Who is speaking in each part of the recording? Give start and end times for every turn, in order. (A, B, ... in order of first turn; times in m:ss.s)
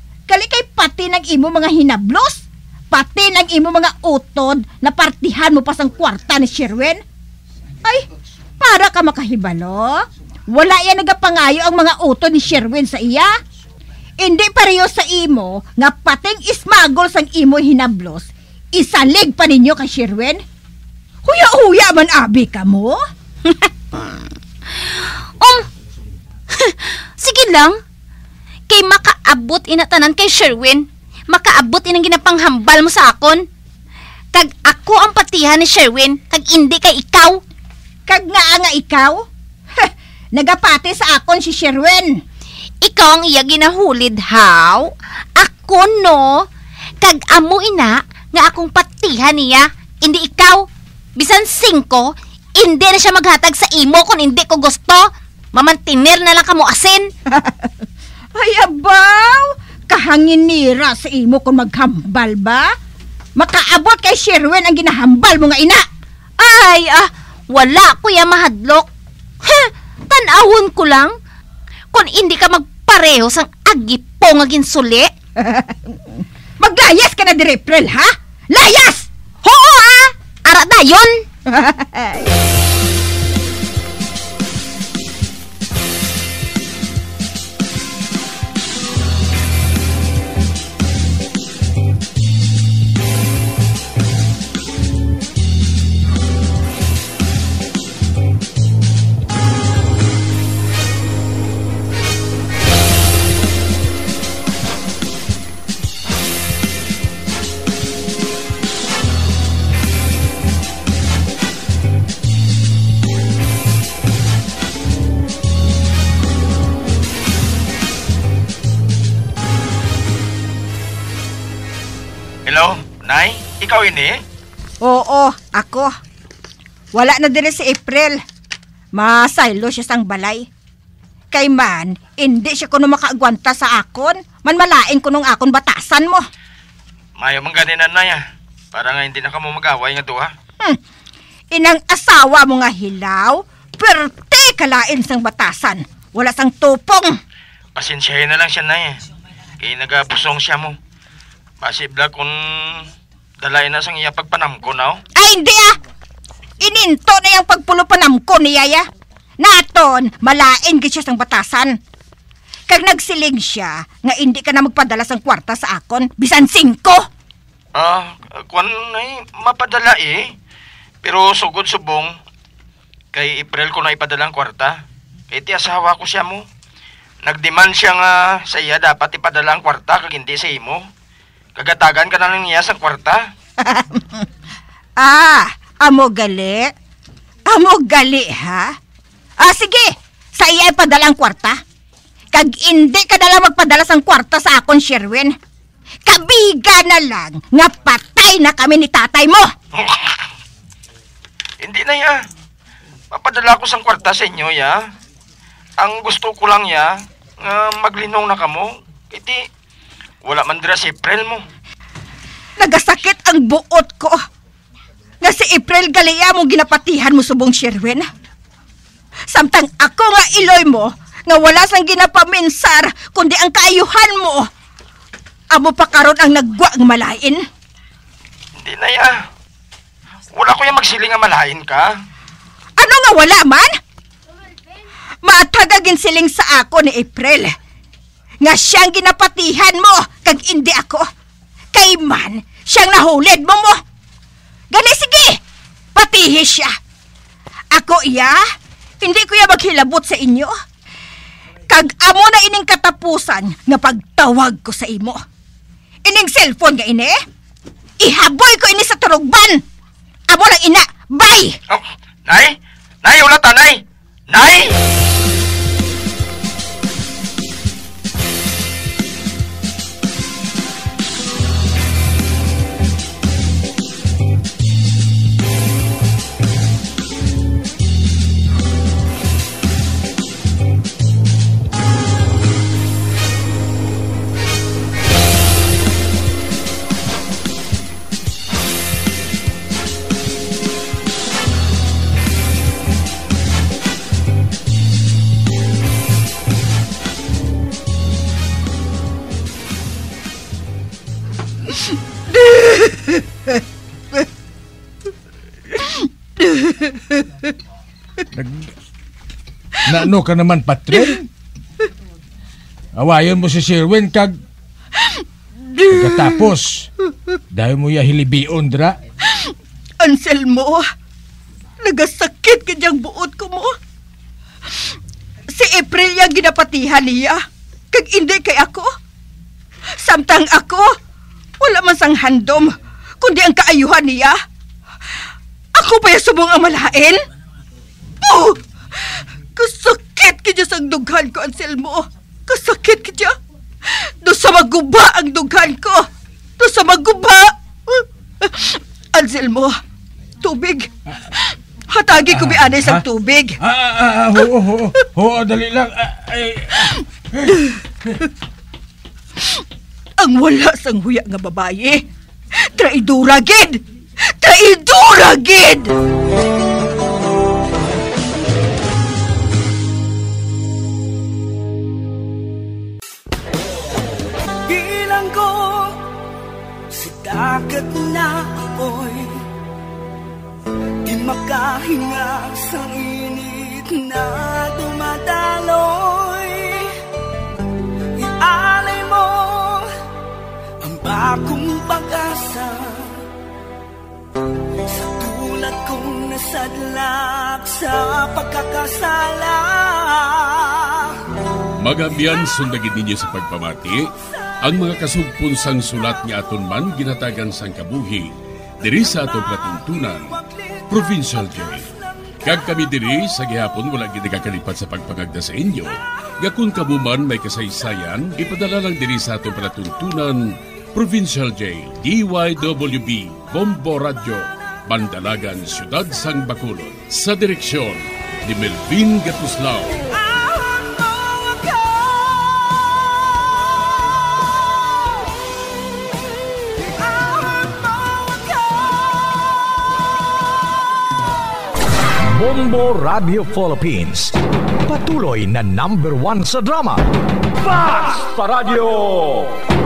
0:00.3-0:07.0 A
0:08.6-0:13.3 A
0:14.2-0:20.4 A
0:21.2-0:23.0 A
0:26.7-0:27.8 B
0:28.7-0:33.4 B
0:34.3-0:37.4 B
0:38.1-0:39.2 A
0:39.8-0:42.1 A
0:42.8-0:46.4 B
0:47.0-0:50.6 B
0:51.2-0:52.1 B
0:52.6-0:57.1 B
0:57.4-0:57.7 A
0:58.4-1:02.7 A
1:03.4-1:05.8 A
1:06.4-1:08.9 B
1:09.4-1:11.1 B
1:11.9-1:15.1 B
1:15.4-1:19.1 A
1:19.4-1:21.2 B
1:21.5-1:22.3 A
2:02.5-2:04.2 C
2:04.8-2:05.9 A
2:06.9-2:08.2 A
2:09.0-2:10.5 A
2:11.3-2:16.3 A
2:17.2-2:18.2 C
2:18.7-2:20.3 C
2:21.5-2:27.2 A
2:27.8-2:29.0 C
2:29.6-2:30.8 C
2:31.6-2:35.0 C
2:35.2-2:35.8 A
2:36.6-2:38.8 A
2:39.4-2:41.8 A
2:42.7-2:47.0 A
2:47.7-2:50.3 C
2:51.0-2:52.1 C
2:53.1-2:56.4 C
2:57.2-3:00.8 C
3:01.6-3:03.2 C
3:03.7-3:04.3 A
3:05.0-3:06.7 A
3:07.5-3:08.7 A
3:09.4-3:11.6 A
3:12.3-3:15.3 A
3:16.1-3:19.5 A
3:19.8-3:20.2 C
3:21.6-3:22.2 C
3:23.1-3:24.8 C
3:25.8-3:29.4 C
3:30.2-3:31.4 C
3:32.6-3:34.2 A
3:35.2-3:38.1 A
3:39.3-3:44.5 A
3:45.5-3:47.4 A
3:48.6-3:49.2 C
3:50.3-3:51.9 C
3:52.8-3:53.7 A
3:55.2-3:57.5 A
3:58.4-4:01.1 A
4:01.7-4:03.8 A
4:04.7-4:05.4 A
4:06.0-4:06.7 A
4:07.7-4:08.4 A
4:09.0-4:10.5 A
4:11.7-4:15.2 A
4:16.0-4:17.2 A
4:18.0-4:19.6 A
4:20.3-4:21.6 A
4:21.7-4:24.8 C
5:02.3-5:03.2 A
5:05.8-5:07.2 A
5:08.3-5:08.7 D
5:09.9-5:11.3 D
5:13.0-5:14.4 D
5:15.0-5:16.6 A
5:15.9-5:16.9 D
5:17.5-5:19.0 D
5:19.3-5:20.8 A
5:21.8-5:23.7 A
5:25.5-5:27.4 A
5:27.9-5:28.9 A
5:30.0-5:30.9 A
5:31.6-5:34.4 A
5:35.8-5:37.2 A
5:38.2-5:38.6 A
5:39.2-5:43.3 A
5:43.9-5:46.0 A
5:46.6-5:49.8 A
5:50.4-5:53.6 A
5:52.4-5:53.0 D
5:53.6-5:57.5 D
6:00.2-6:02.0 A
6:02.6-6:03.8 A
6:04.4-6:05.9 A
6:14.7-6:16.0 E
6:16.9-6:19.4 E
6:21.0-6:26.9 E
6:28.2-6:29.9 E
6:30.8-6:33.2 E
6:34.9-6:41.1 E
6:41.8-6:44.1 F
6:44.6-6:48.3 F
6:48.8-6:51.9 F
6:52.4-7:10.0 F
7:22.2-7:27.1 G
7:27.6-7:29.6 G